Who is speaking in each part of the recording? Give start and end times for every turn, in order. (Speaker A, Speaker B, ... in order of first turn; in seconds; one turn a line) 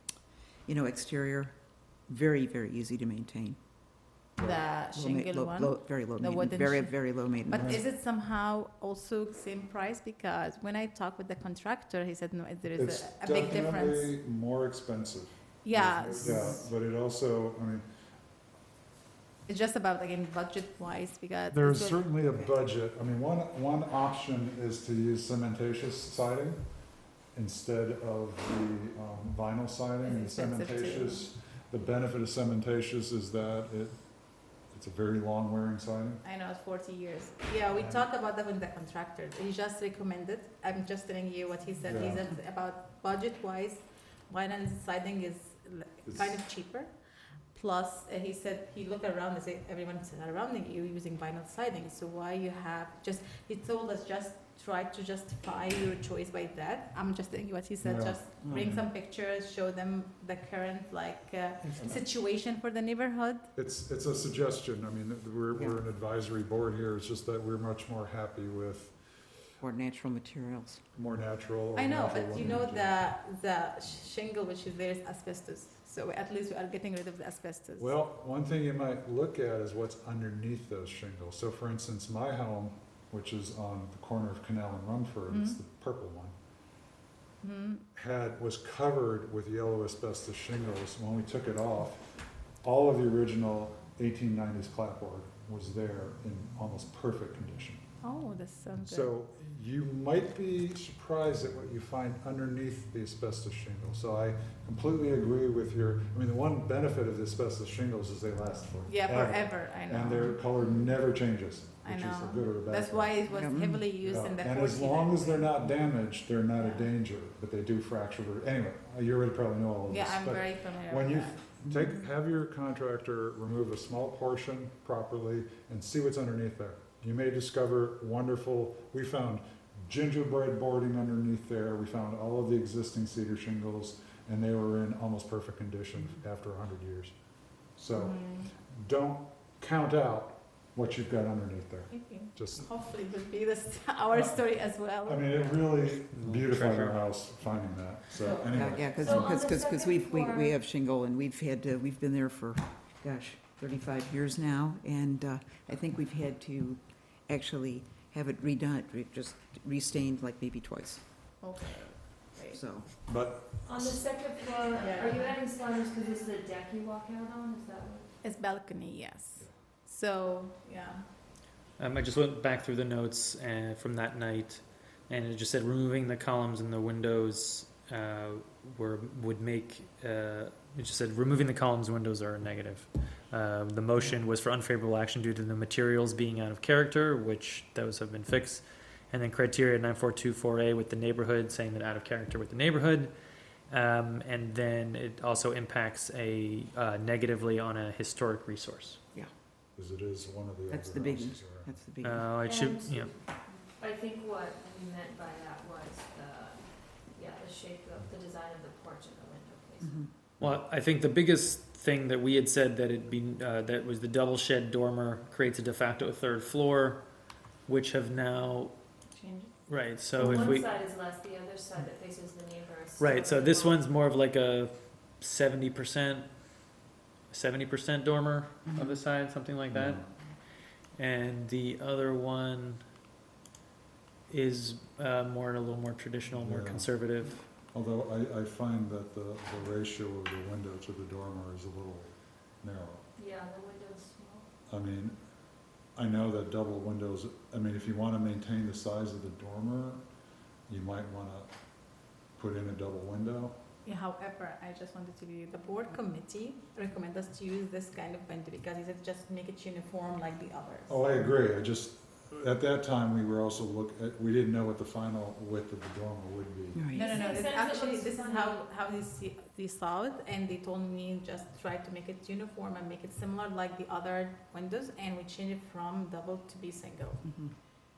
Speaker A: 0.7-3.6
Speaker B: 4.4-14.1
Speaker A: 4.9-7.8
Speaker C: 7.5-7.9
Speaker C: 12.8-17.9
Speaker B: 15.6-16.7
Speaker A: 16.1-16.4
Speaker B: 19.5-22.0
Speaker C: 21.5-26.6
Speaker C: 27.4-34.0
Speaker B: 30.0-31.3
Speaker C: 34.7-36.2
Speaker B: 36.2-46.9
Speaker C: 37.7-38.1
Speaker C: 41.8-42.3
Speaker C: 46.1-46.4
Speaker B: 47.5-63.5
Speaker C: 57.8-58.9
Speaker C: 63.6-69.0
Speaker A: 65.5-65.8
Speaker A: 69.6-70.8
Speaker C: 71.0-72.9
Speaker B: 71.8-77.9
Speaker C: 77.8-86.3
Speaker B: 85.3-85.6
Speaker B: 87.4-87.8
Speaker C: 88.0-97.8
Speaker B: 98.0-99.1
Speaker C: 98.9-113.3
Speaker B: 108.9-110.4
Speaker B: 111.8-115.5
Speaker A: 113.3-113.8
Speaker C: 114.0-137.1
Speaker B: 116.6-116.9
Speaker B: 119.9-121.4
Speaker C: 137.8-142.7
Speaker B: 137.9-138.5
Speaker B: 141.9-145.7
Speaker C: 144.1-144.4
Speaker C: 145.0-149.3
Speaker D: 146.1-147.0
Speaker E: 148.4-150.6
Speaker A: 148.5-161.0
Speaker B: 161.4-162.6
Speaker A: 162.5-162.9
Speaker C: 163.1-163.9
Speaker E: 163.7-168.1
Speaker B: 164.8-165.4
Speaker B: 168.2-171.0
Speaker D: 171.8-193.1
Speaker D: 193.7-199.0
Speaker C: 199.8-201.7
Speaker A: 200.7-202.3
Speaker D: 202.0-203.1
Speaker E: 202.3-203.1
Speaker E: 203.8-210.0
Speaker A: 209.8-210.1
Speaker D: 210.4-217.0
Speaker D: 217.7-218.7
Speaker B: 219.1-219.6
Speaker D: 219.7-220.7
Speaker E: 220.1-223.8
Speaker C: 220.2-220.5
Speaker D: 223.0-226.3
Speaker D: 227.3-230.0
Speaker C: 229.7-230.1
Speaker D: 231.0-232.8
Speaker D: 234.3-237.4
Speaker C: 236.3-236.9
Speaker C: 237.7-242.1
Speaker C: 242.6-243.0
Speaker E: 243.2-244.4
Speaker C: 244.7-245.2
Speaker C: 246.0-250.0
Speaker C: 250.7-251.5
Speaker C: 252.4-253.6
Speaker B: 253.8-261.0
Speaker C: 260.9-266.8
Speaker A: 266.7-267.2
Speaker E: 266.9-268.6
Speaker B: 266.9-277.3
Speaker A: 277.2-277.5